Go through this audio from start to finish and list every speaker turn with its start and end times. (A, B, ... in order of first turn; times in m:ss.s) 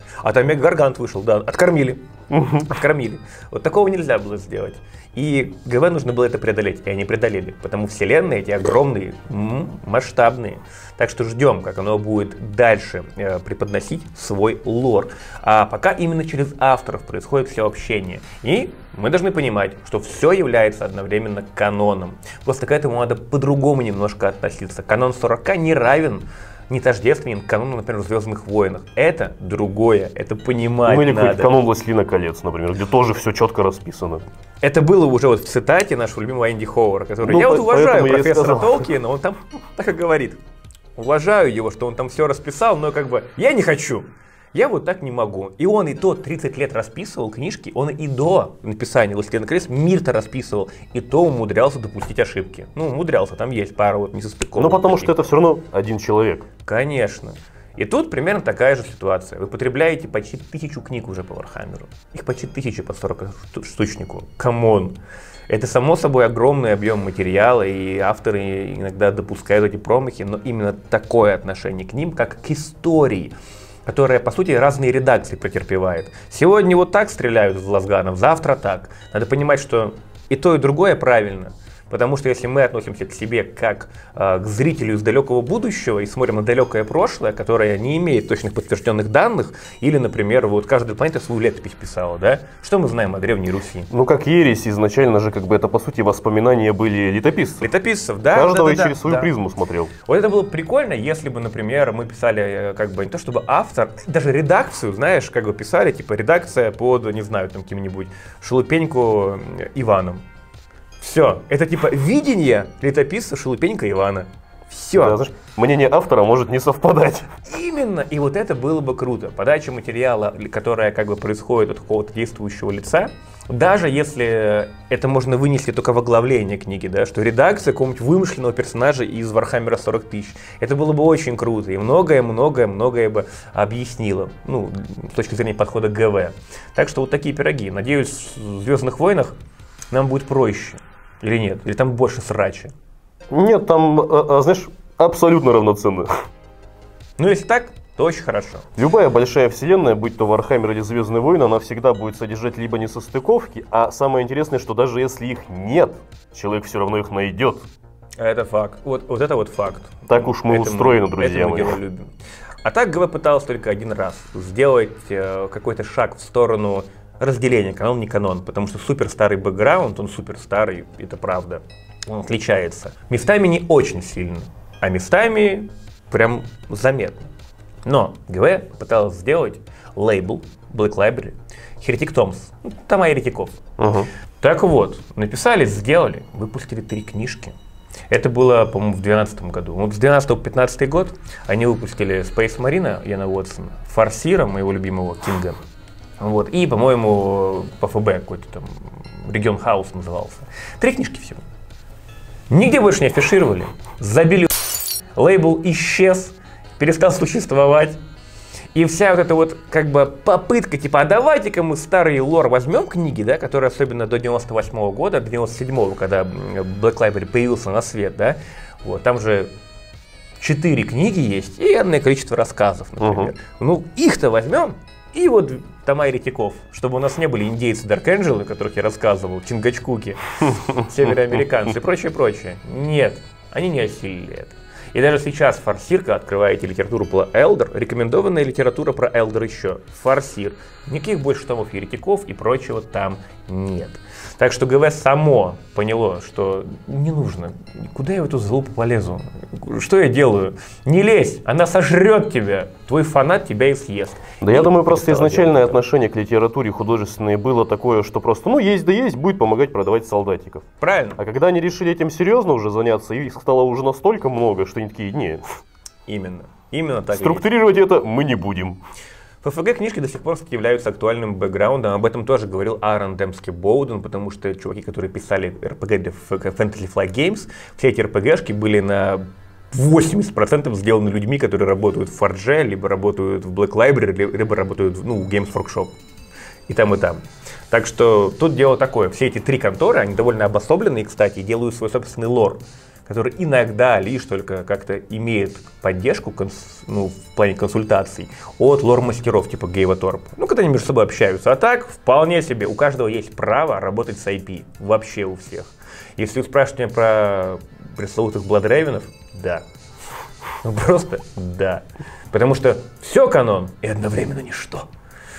0:00.2-0:02.1 A
0:02.3-0:02.7 B
0:02.6-0:31.5 A
0:30.8-0:34.2 B
0:34.6-0:40.4 A
0:37.2-0:38.9 B
0:41.0-0:55.3 A
0:54.6-0:56.5 B
0:56.6-1:05.0 A
1:05.5-1:13.3 A
1:13.9-1:33.9 A
1:33.9-1:37.7 B
1:37.6-1:39.3 A
1:38.3-1:39.9 B
1:40.0-1:50.2 A
1:51.0-1:55.2 A
1:55.0-1:57.3 B
1:57.4-2:19.4 A
2:19.9-2:22.7 A
2:23.3-2:26.1 B
2:27.2-2:28.7 A
2:28.8-2:37.7 B
2:38.2-2:42.1 A
2:40.1-2:41.8 B
2:42.6-2:57.3 A
2:57.9-3:03.6 A
3:03.8-3:04.1 B
3:04.4-3:07.5 A
3:08.1-3:15.6 A
3:16.2-3:21.4 A
3:22.5-3:28.0 A
3:28.7-3:39.5 A
3:40.4-4:15.8 A
3:43.0-3:43.3 B
3:50.4-3:51.4 B
4:14.4-4:25.4 B
4:20.8-4:21.2 A
4:26.1-4:27.4 A
4:27.1-4:28.8 B
4:29.4-4:45.9 A
4:46.7-5:09.6 A
5:10.6-5:14.9 A